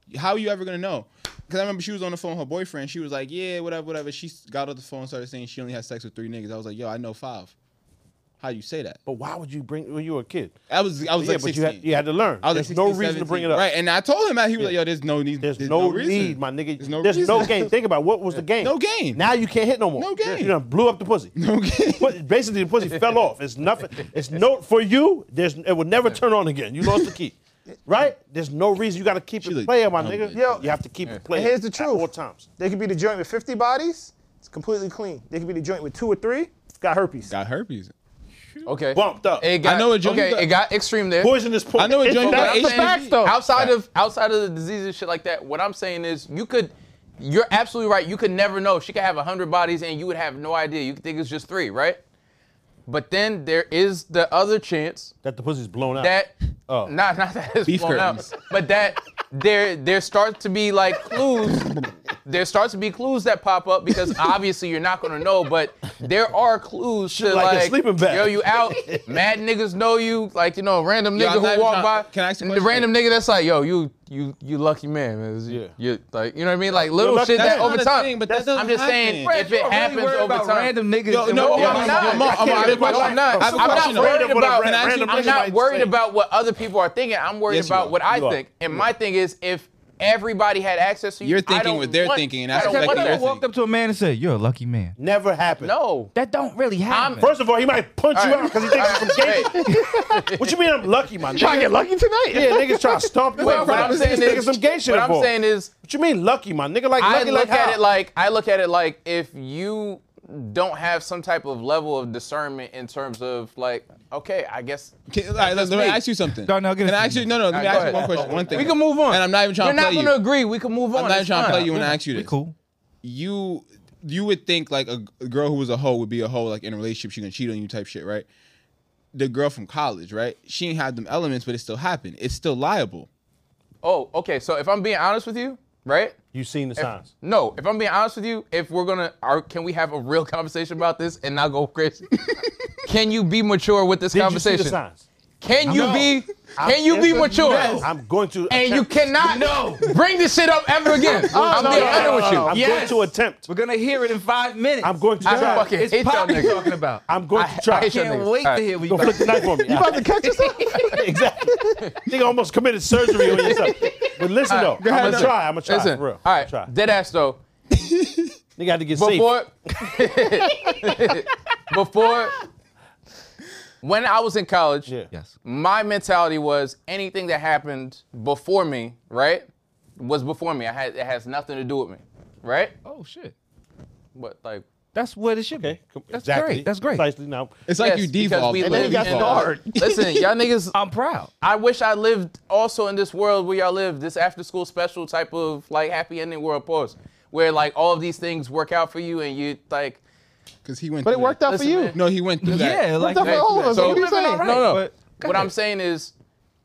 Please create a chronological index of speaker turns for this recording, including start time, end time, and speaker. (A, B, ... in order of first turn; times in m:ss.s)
0:00.1-0:07.5 A
0:08.4-0:09.0 A
0:09.1-0:13.7 B
0:10.7-0:11.9 A
0:12.4-0:17.7 A
0:15.4-0:21.4 B
0:18.6-0:19.2 A
0:20.0-0:20.6 A
0:21.4-0:22.2 A
0:22.0-0:32.5 B
0:29.4-0:30.4 A
0:30.3-0:30.8 C
0:31.3-0:37.4 C
0:37.3-0:37.9 A
0:38.7-0:41.3 D
0:38.9-0:39.6 B
0:39.6-0:40.5 A
0:41.2-0:42.2 B
0:41.8-0:43.7 A
0:41.9-0:43.4 C
0:42.2-0:52.0 D
0:52.9-0:55.1 D
0:55.2-0:56.2 B
0:56.0-0:56.3 D
0:56.8-1:01.7 D
0:57.7-0:58.3 A
1:02.2-1:33.4 D
1:07.1-1:09.0 B
1:11.2-1:12.9 A
1:16.8-1:17.7 B
1:17.4-1:19.3 A
1:18.3-1:18.6 C
1:19.3-1:22.8 E
1:21.1-1:25.4 A
1:21.4-1:25.9 B
1:27.5-1:28.0 A
1:28.1-1:28.9 B
1:31.2-1:33.4 A
1:32.5-1:35.0 E
1:35.0-1:35.7 B
1:35.6-1:36.1 D
1:36.1-1:37.3 E
1:36.9-1:37.3 D
1:37.2-1:41.7 B
1:38.1-1:39.7 D
1:39.5-1:40.2 C
1:41.3-1:43.3 C
1:42.3-1:45.3 B
1:43.4-1:44.5 A
1:43.4-1:45.7 D
1:45.8-1:47.8 B
1:47.0-1:56.0 D
1:55.1-2:00.2 A
1:56.4-1:57.5 E
1:57.5-2:01.8 D
1:57.6-1:58.7 B
2:00.9-2:02.3 A
2:01.4-2:02.6 E
2:03.0-2:08.3 A
2:09.1-2:13.1 A
2:13.8-2:16.2 D
2:16.3-2:17.1 B
2:16.8-2:22.1 D
2:22.8-2:24.8 D
2:24.1-2:25.0 B
2:25.4-2:27.9 D
2:25.7-2:26.2 E
2:26.6-2:27.9 C
2:27.4-2:27.9 E
2:27.6-2:28.9 B
2:28.5-2:32.5 D
2:29.2-2:29.8 E
2:31.1-2:32.6 C
2:31.3-2:33.4 B
2:31.7-2:37.0 E
2:34.8-2:35.7 B
2:35.2-2:36.7 D
2:37.1-2:37.9 B
2:37.3-2:38.7 D
2:37.7-2:39.5 E
2:38.9-2:46.7 B
2:39.6-2:41.8 C
2:43.3-2:43.9 D
2:44.5-2:47.4 D
2:44.8-2:45.4 A
2:47.7-2:48.3 A
2:48.6-2:49.4 B
2:48.9-2:52.4 D
2:53.8-2:54.9 D
2:55.4-2:59.5 D
3:00.0-3:02.7 D
3:02.8-3:03.3 E
3:04.2-3:04.6 D
3:04.9-3:07.1 E
3:05.5-3:07.6 B
3:07.7-3:10.3 A
3:07.8-3:10.8 D
3:08.5-3:09.8 C
3:10.7-3:11.3 E
3:11.4-3:20.0 D
3:20.6-3:21.4 A
3:21.0-3:24.7 C
3:21.2-3:22.0 D
3:21.9-3:22.9 A
3:22.4-3:25.5 E
3:23.2-3:26.1 D